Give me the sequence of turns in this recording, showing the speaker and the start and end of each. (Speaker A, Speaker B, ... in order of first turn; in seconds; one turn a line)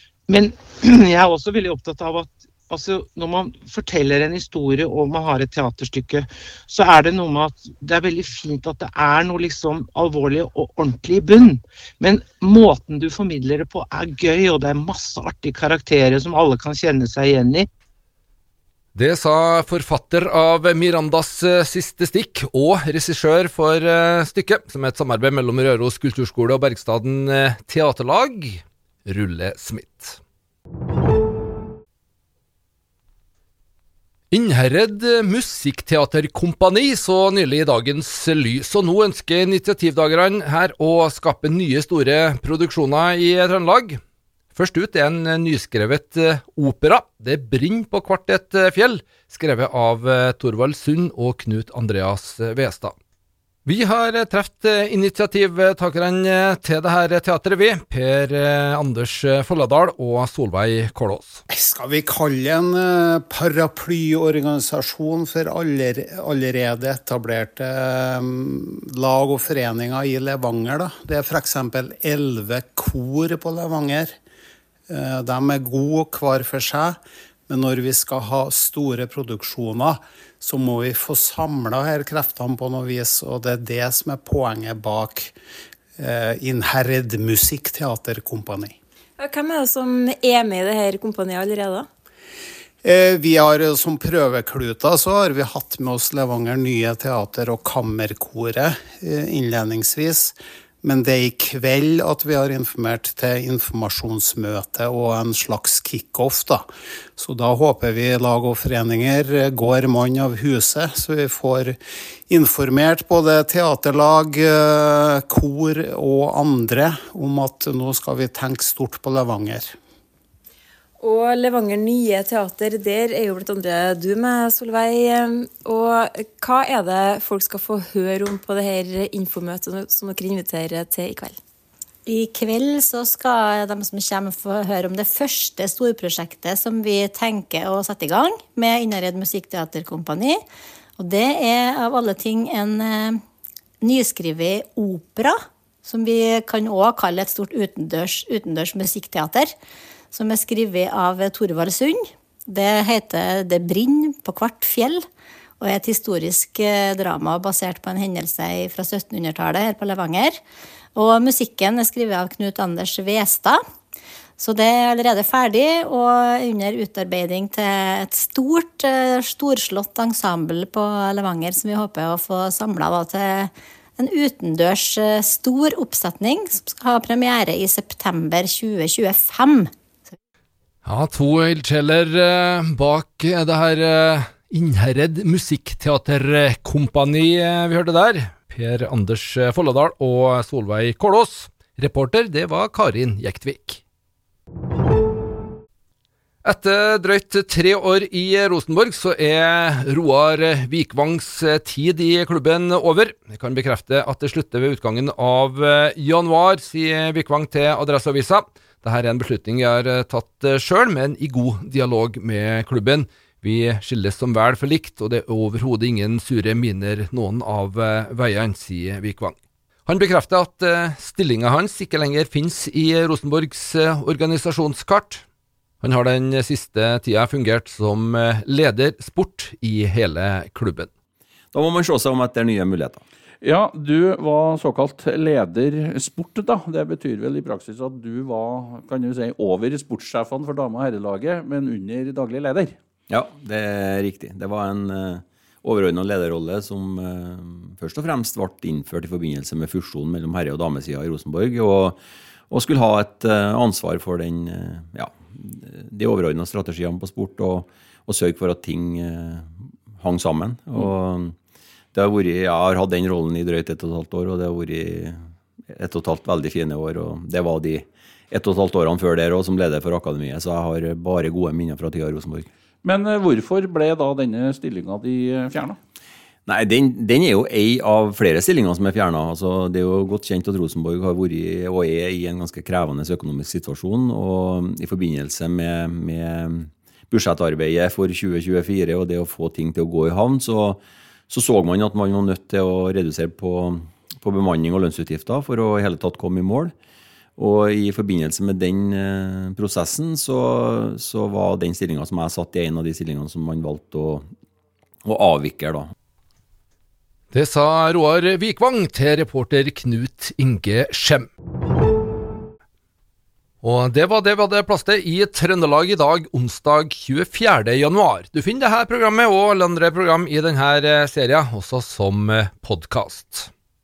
Speaker A: 0.3-17.7
Speaker B: 18.9-30.2
Speaker B: 34.3-44.0
Speaker B: 44.5-52.9
Speaker B: 53.6-61.4
Speaker C: 61.5-74.2
Speaker C: 74.9-85.3
Speaker C: 86.0-88.8
Speaker D: 89.2-91.9
Speaker C: 92.8-119.8
Speaker D: 121.0-131.4
Speaker E: 132.1-140.4
Speaker E: 141.0-143.2
Speaker E: 143.8-149.5
Speaker E: 150.1-155.1
Speaker E: 155.6-160.4
Speaker E: 160.9-163.6
Speaker E: 164.4-179.7
Speaker B: 180.8-193.8
Speaker B: 196.4-225.2
Speaker B: 225.8-230.9
Speaker F: 231.5-233.0
Speaker G: 233.4-242.8
Speaker F: 243.1-261.4
Speaker F: 261.9-265.2
Speaker F: 265.7-272.5
Speaker G: 272.8-275.8
Speaker F: 276.5-296.7
Speaker F: 297.4-304.2
Speaker F: 305.1-305.9
Speaker B: 307.3-311.3
Speaker B: 313.6-323.5